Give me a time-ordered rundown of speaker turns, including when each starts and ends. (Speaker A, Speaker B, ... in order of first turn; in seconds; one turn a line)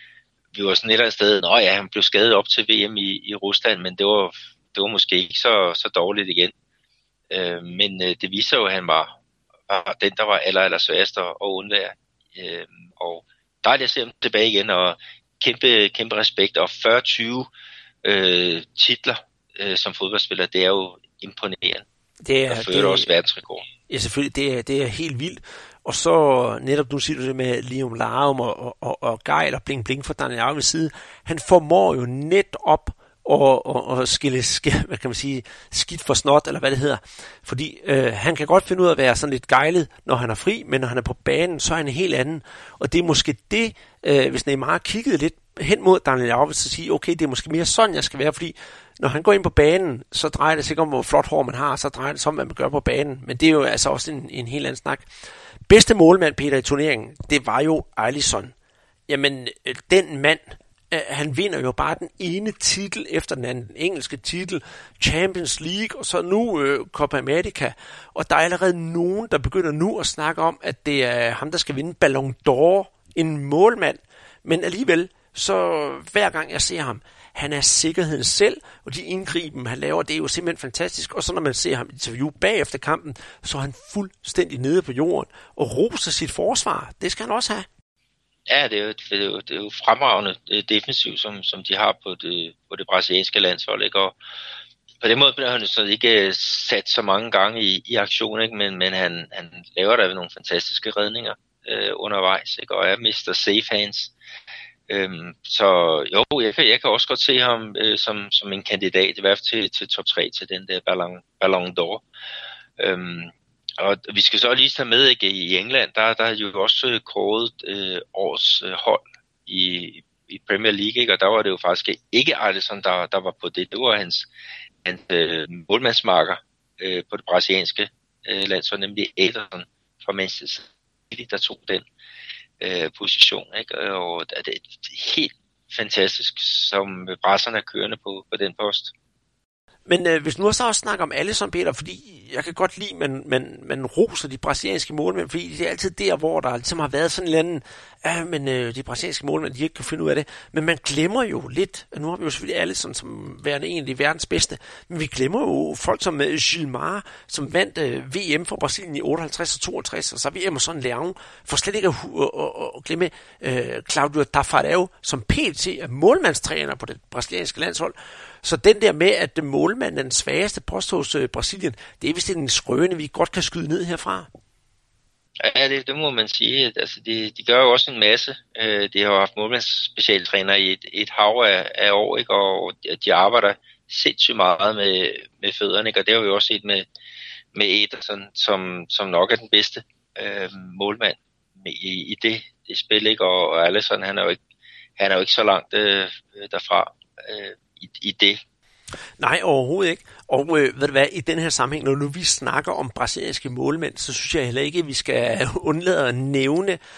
Speaker A: 0.5-6.5
Speaker A: 7.3-9.2
Speaker A: 9.7-17.5
Speaker A: 18.0-21.9
Speaker B: 22.2-23.1
Speaker A: 22.5-23.7
Speaker B: 23.9-55.1
Speaker B: 55.7-58.5
Speaker B: 59.1-87.7
Speaker A: 88.5-94.2
Speaker A: 95.0-104.1
Speaker A: 104.9-112.0
Speaker A: 112.8-124.3
Speaker A: 124.8-131.9
Speaker A: 132.6-138.9
Speaker B: 139.9-174.3
Speaker A: 175.4-186.9
Speaker A: 187.5-194.4
Speaker A: 195.0-198.4
Speaker B: 199.2-206.8